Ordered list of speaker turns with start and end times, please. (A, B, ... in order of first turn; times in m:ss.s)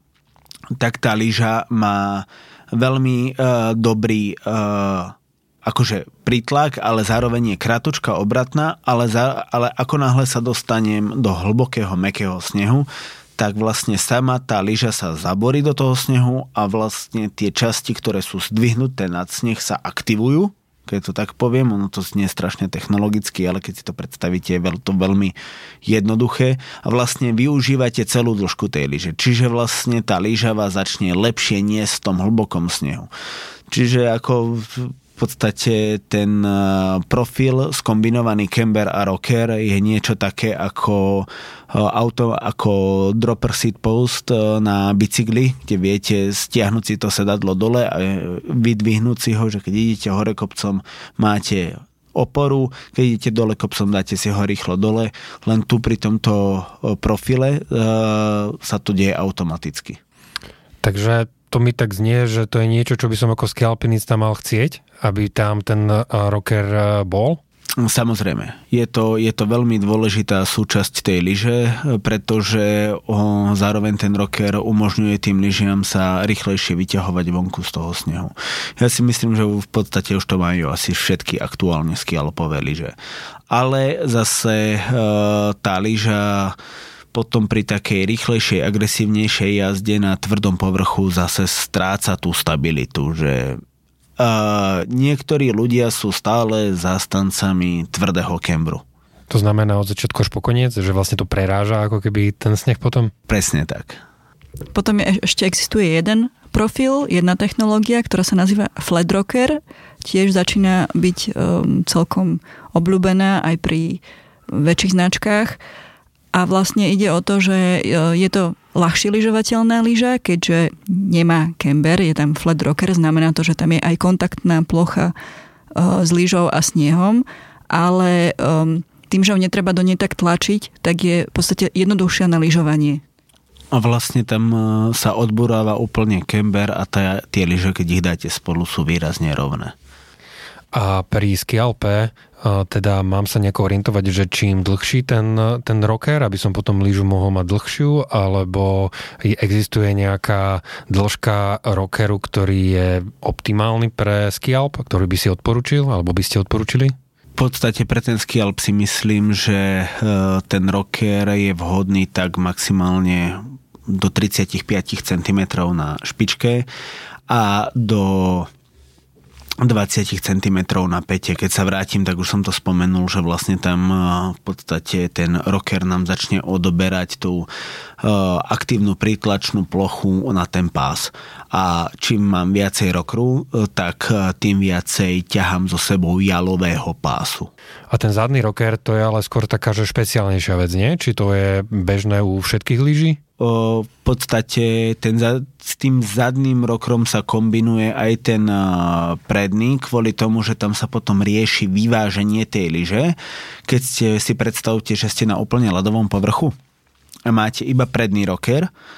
0:00.8-0:33.1 A
0:33.7-1:00.0 A
1:00.8-1:07.4 B
1:07.8-1:23.0 A
1:23.5-1:26.6 A
1:27.1-1:33.6 A
1:34.2-1:38.8 A
1:39.3-1:43.1 B
1:43.3-1:44.0 A
1:44.7-1:55.6 C
1:56.3-2:05.1 C
2:05.8-2:13.0 C
2:13.7-2:19.8 A
2:20.7-2:37.0 B
2:37.4-2:46.7 A
2:47.3-2:48.5 A
2:49.6-2:57.5 A
2:58.0-3:07.5 A
3:07.9-3:13.2 B
3:13.4-3:23.2 A
3:23.7-3:26.5 A
3:27.3-3:28.7 A